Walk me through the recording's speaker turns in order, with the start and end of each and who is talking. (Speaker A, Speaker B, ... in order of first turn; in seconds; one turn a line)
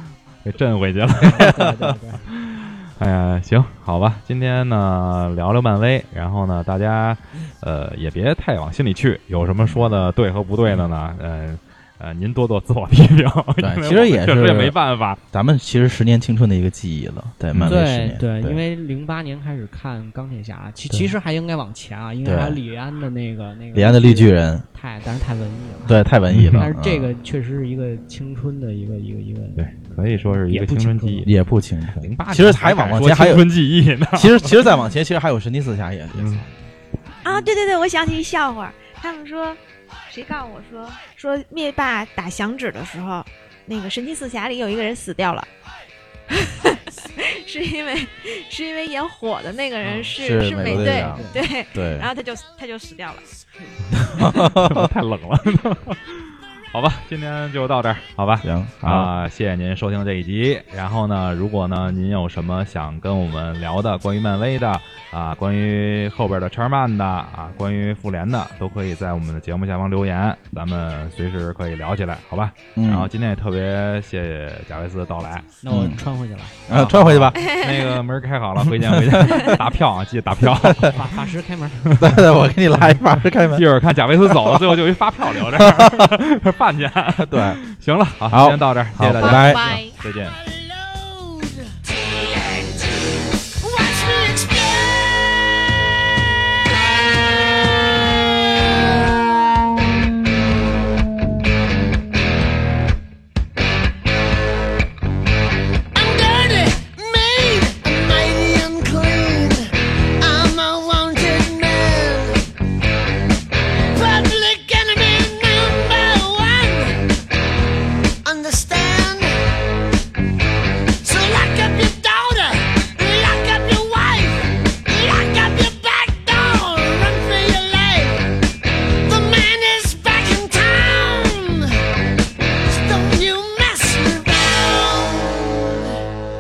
Speaker A: 0.4-1.6
Speaker B: 1.2-2.3
Speaker A: 2.3-15.2
Speaker C: 9.6-10.1
Speaker C: 13.6-14.8
Speaker C: 15.3-18.6
Speaker A: 17.5-17.8
Speaker B: 17.7-31.3
Speaker C: 22.2-22.6
Speaker C: 23.7-24.6
Speaker C: 25.9-27.1
Speaker A: 26.3-26.7
Speaker A: 29.6-31.4
Speaker C: 31.2-33.5
Speaker A: 32.0-34.5
Speaker C: 34.1-36.5
Speaker A: 36.1-36.5
Speaker D: 37.2-45.5
Speaker D: 46.3-53.3
Speaker B: 49.8-51.4
Speaker C: 50.2-52.1
Speaker C: 54.0-54.9
Speaker A: 54.3-75.5
Speaker C: 58.4-59.1
Speaker C: 72.7-73.1
Speaker B: 75.6-76.7
Speaker C: 75.7-76.0
Speaker C: 76.7-77.5
Speaker A: 76.7-81.2
Speaker D: 77.4-78.0
Speaker C: 78.6-79.6
Speaker C: 80.4-80.9
Speaker B: 80.8-82.2
Speaker C: 82.0-86.1
Speaker A: 83.5-90.4
Speaker C: 87.2-87.6
Speaker C: 88.3-89.7
Speaker D: 89.2-90.0
Speaker E: 89.7-95.6
Speaker E: 96.7-99.3
Speaker E: 105.9-112.5
Speaker E: 113.9-117.1
Speaker E: 118.2-119.5
Speaker E: 121.0-128.4
Speaker E: 129.1-131.8
Speaker E: 132.7-135.9